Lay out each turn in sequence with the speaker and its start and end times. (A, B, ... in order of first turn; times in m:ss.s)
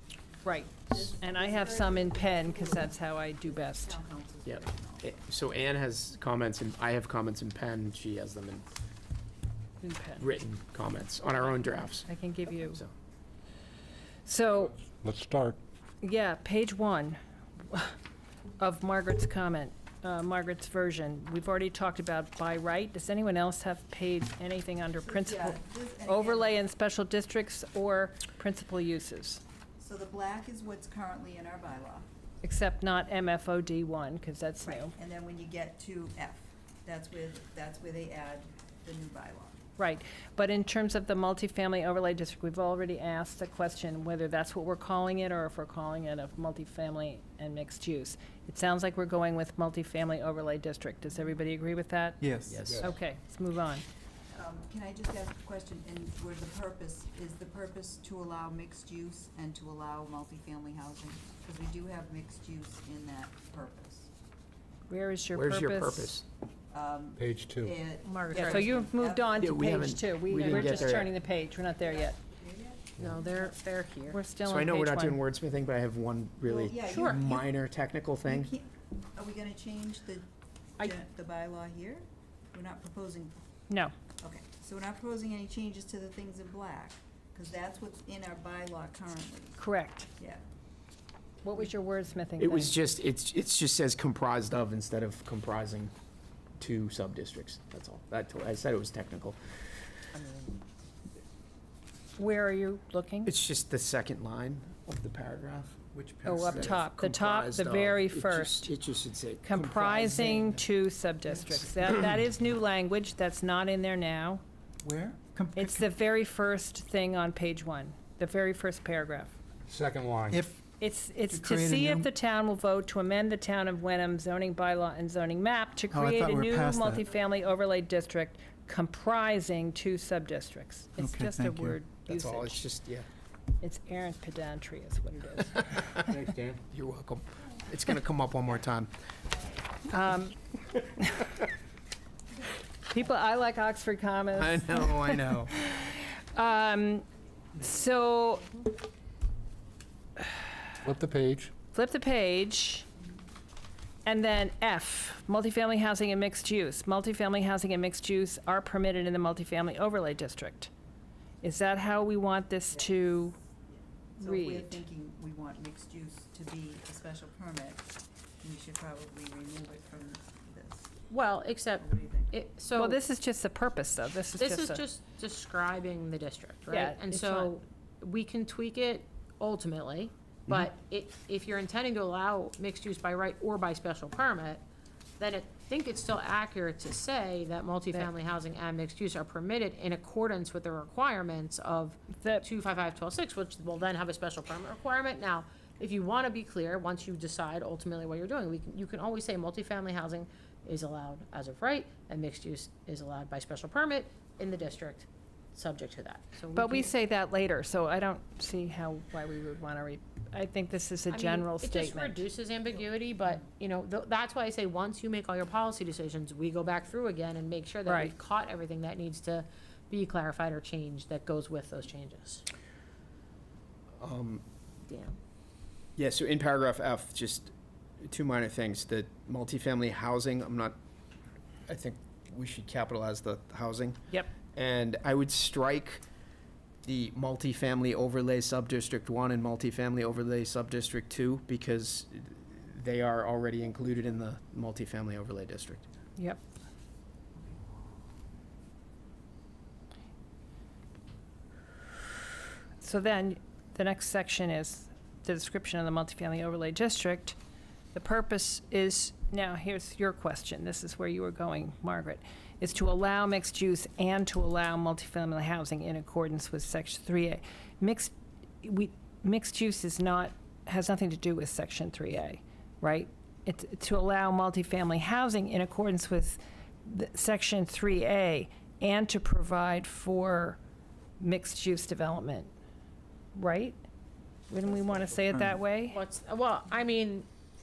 0:00.4-0:04.0 A
0:00.7-0:05.2 B
0:04.4-0:08.7 C
0:09.8-0:10.2 A
0:10.2-0:12.9 C
0:12.1-0:12.8 A
0:14.2-0:14.8 A
0:14.7-0:15.6 D
0:16.0-0:18.0 A
0:18.6-0:29.4 A
0:25.0-0:26.6 B
0:29.8-0:32.1 B
0:32.4-0:34.9 A
0:34.6-0:39.6 B
0:39.8-0:52.2 A
0:52.2-0:52.6 E
0:52.5-0:52.8 C
0:52.6-0:52.9 D
0:52.8-0:53.8 A
0:54.4-1:04.1 B
1:04.9-1:06.1 A
1:05.3-1:06.2 C
1:06.7-1:09.6 B
1:07.2-1:07.8 D
1:08.0-1:08.8 F
1:08.3-1:12.1 A
1:09.4-1:11.1 C
1:10.4-1:10.9 B
1:11.8-1:13.2 B
1:13.0-1:14.2 F
1:14.1-1:15.2 A
1:14.4-1:18.5 C
1:16.4-1:17.5 B
1:16.9-1:17.2 F
1:18.3-1:20.3 B
1:20.8-1:23.4 B
1:23.7-1:23.9 A
1:24.2-1:29.6 B
1:29.6-1:30.1 A
1:30.2-1:30.4 B
1:31.4-1:32.7 A
1:32.4-1:35.9 C
1:36.6-1:39.4 C
1:42.2-1:43.3 A
1:43.2-1:45.8 C
1:46.0-1:46.8 E
1:46.2-1:48.7 A
1:46.3-1:50.6 C
1:49.4-1:54.4 A
1:54.8-1:55.8 E
1:55.6-1:59.4 A
1:59.7-2:00.4 D
2:00.3-2:00.6 E
2:00.8-2:12.6 A
2:01.3-2:02.1 E
2:05.9-2:07.2 E
2:11.0-2:11.8 E
2:12.0-2:13.0 C
2:13.6-2:16.0 A
2:16.1-2:16.6 D
2:16.7-2:18.9 C
2:19.9-2:20.3 A
2:22.9-2:27.0 A
2:24.3-2:25.5 C
2:27.6-2:28.5 A
2:30.8-2:31.5 D
2:31.7-2:32.8 A
2:34.0-2:40.7 A
2:41.4-2:43.4 A
2:42.7-2:51.0 B
2:44.2-2:44.7 A
2:51.1-2:53.0 F
2:51.8-2:52.3 B
2:52.8-2:54.8 A
2:54.4-3:04.6 F
2:56.7-2:57.5 A
3:05.2-3:26.9 F
3:12.2-3:12.4 A
3:26.5-3:32.2 A
3:31.1-3:42.4 F
3:37.9-3:38.1 A
3:44.0-3:44.4 C
3:44.9-3:45.2 F
3:46.0-3:50.8 C
3:51.7-3:56.0 C
3:56.8-4:05.8 C
4:12.8-4:17.4 A
4:17.9-4:40.6 A
4:41.2-4:42.5 A
4:43.3-4:43.8 A
4:44.5-4:46.0 A
4:45.9-4:47.3 F